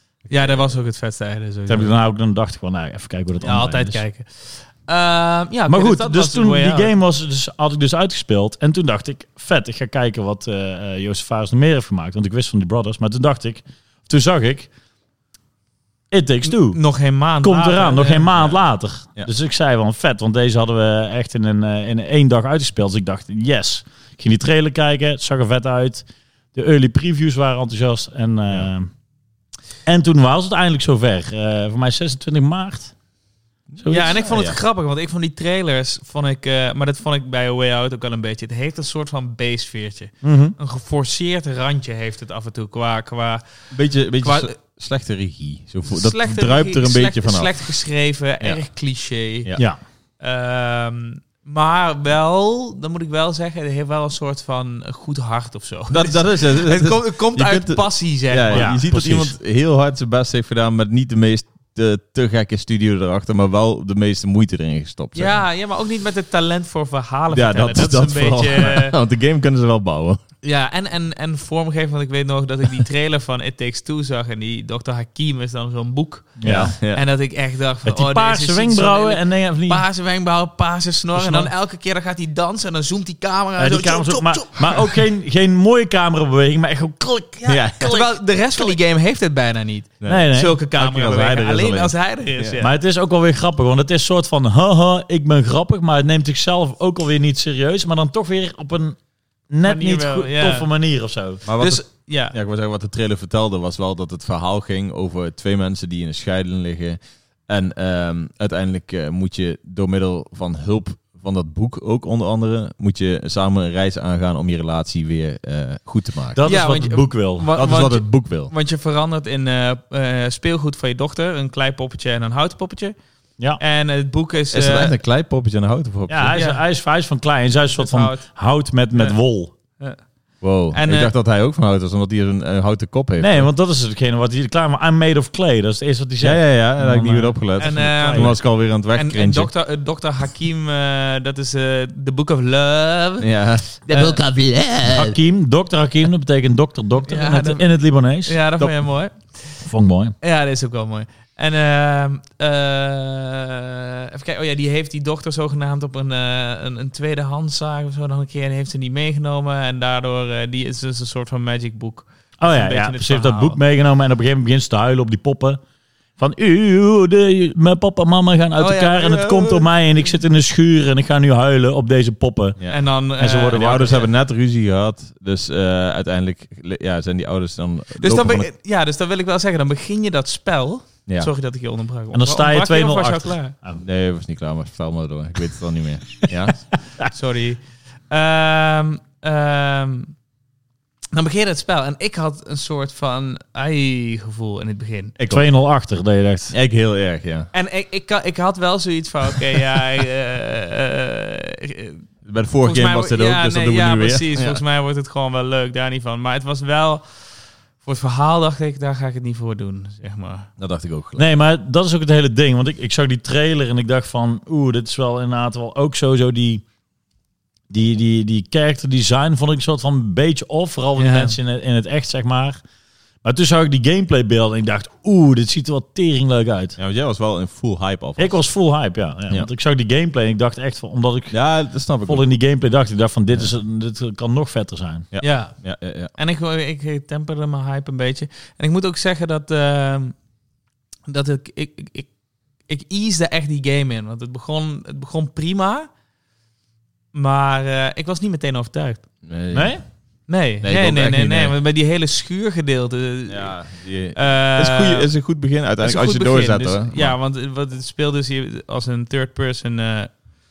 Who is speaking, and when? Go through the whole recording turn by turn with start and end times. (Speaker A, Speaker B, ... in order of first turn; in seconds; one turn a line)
Speaker A: 0.3-1.9
Speaker B: 1.7-4.0
Speaker A: 3.4-6.9
Speaker B: 5.7-14.7
Speaker B: 16.1-16.8
Speaker A: 16.4-18.3
Speaker B: 17.4-28.9
Speaker B: 29.9-32.9
Speaker C: 33.7-34.6
Speaker B: 33.8-34.2
Speaker A: 33.9-43.4
Speaker B: 40.2-40.5
Speaker C: 43.7-47.6
Speaker A: 44.2-44.5
Speaker A: 45.9-49.5
Speaker A: 50.2-58.8
Speaker C: 55.9-65.4
Speaker B: 58.5-59.3
Speaker A: 65.2-69.0
Speaker C: 67.3-70.2
Speaker A: 70.4-85.0
Speaker B: 76.4-76.7
Speaker C: 76.5-77.0
Speaker B: 77.8-79.8
Speaker B: 81.2-81.5
Speaker B: 83.6-87.5
Speaker A: 87.4-92.7
Speaker C: 87.5-88.1
Speaker C: 90.0-92.6
Speaker B: 90.1-90.6
Speaker B: 92.6-99.0
Speaker B: 99.5-101.4
Speaker A: 99.7-100.7
Speaker C: 101.5-116.4
Speaker A: 101.6-102.4
Speaker B: 116.3-117.5
Speaker A: 116.5-123.0
Speaker C: 117.5-118.5
Speaker A: 123.6-125.0
Speaker C: 124.5-126.4
Speaker B: 126.1-129.5
Speaker A: 126.3-126.6
Speaker A: 127.7-128.3
Speaker C: 130.4-133.5
Speaker A: 130.7-131.1
Speaker B: 133.2-138.3
Speaker C: 136.2-139.5
Speaker A: 137.6-143.3
Speaker C: 143.2-144.3
Speaker A: 143.9-145.1
Speaker B: 144.8-148.4
Speaker A: 147.1-147.7
Speaker A: 148.2-149.6
Speaker B: 149.6-150.2
Speaker A: 150.2-163.6
Speaker B: 162.4-165.6
Speaker B: 166.2-172.6
Speaker A: 168.6-169.7
Speaker A: 172.7-174.1
Speaker B: 173.2-173.9
Speaker C: 173.5-178.5
Speaker A: 178.0-183.6
Speaker B: 182.1-183.8
Speaker C: 183.8-186.6
Speaker A: 187.1-190.1
Speaker A: 191.1-195.2
Speaker C: 195.2-195.4
Speaker B: 195.3-196.6
Speaker C: 196.5-197.5
Speaker A: 197.5-202.0
Speaker C: 202.2-204.6
Speaker A: 202.6-207.0
Speaker A: 207.8-210.5
Speaker C: 210.6-211.2
Speaker B: 211.2-216.6
Speaker B: 217.7-222.6
Speaker A: 221.0-221.3
Speaker B: 223.2-226.8
Speaker C: 226.8-228.4
Speaker B: 228.2-231.3
Speaker C: 231.3-232.3
Speaker B: 232.1-235.1
Speaker C: 235.1-236.1
Speaker A: 235.2-235.6
Speaker A: 236.2-240.2
Speaker A: 241.1-242.1
Speaker A: 242.7-245.9
Speaker A: 247.1-249.1
Speaker C: 249.2-249.8
Speaker B: 249.5-249.8
Speaker A: 250.3-255.1
Speaker C: 250.6-251.6
Speaker C: 253.3-257.2
Speaker A: 255.8-260.1